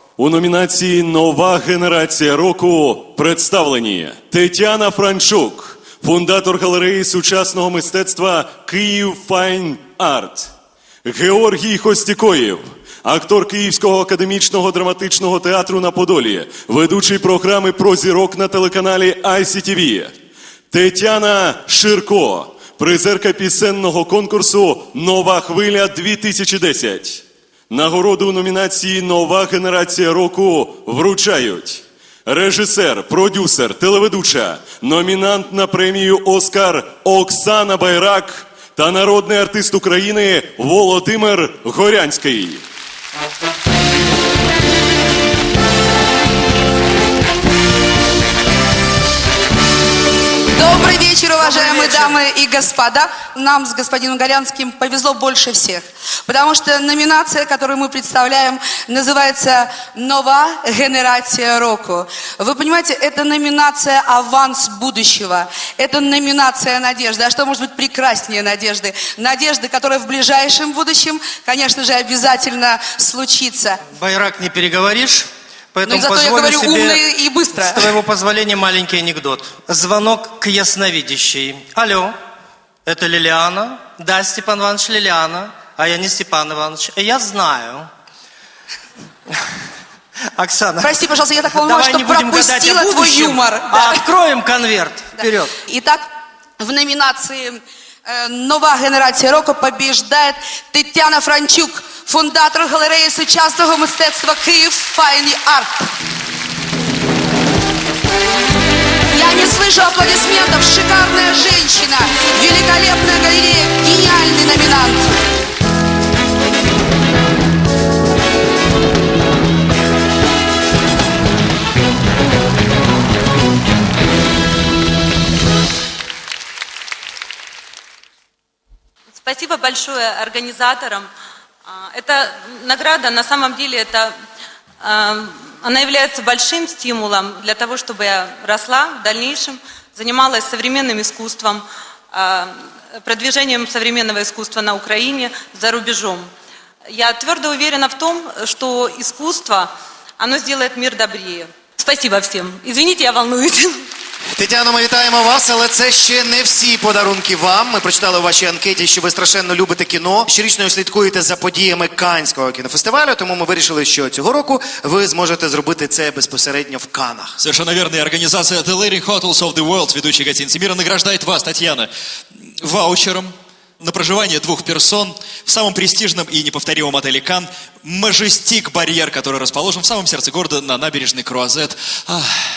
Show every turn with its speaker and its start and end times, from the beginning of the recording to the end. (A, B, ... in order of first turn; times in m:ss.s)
0:00.2-0:10.5 A
0:11.0-0:20.1 A
0:20.7-0:42.6 A
0:50.5-1:13.8 B
1:13.9-1:22.1 C
1:15.8-1:17.9 B
1:22.8-1:27.9 C
1:30.3-1:35.6 C
1:30.8-1:34.0 B
1:35.6-1:36.0 B
1:36.6-1:45.9 B
1:49.1-1:55.1 B
2:09.2-2:11.1 D
2:11.6-2:14.1 D
2:14.8-2:26.3 D
2:26.9-2:33.8 D
2:34.4-2:47.4 E
2:47.4-2:51.9 F
2:52.6-3:02.3 F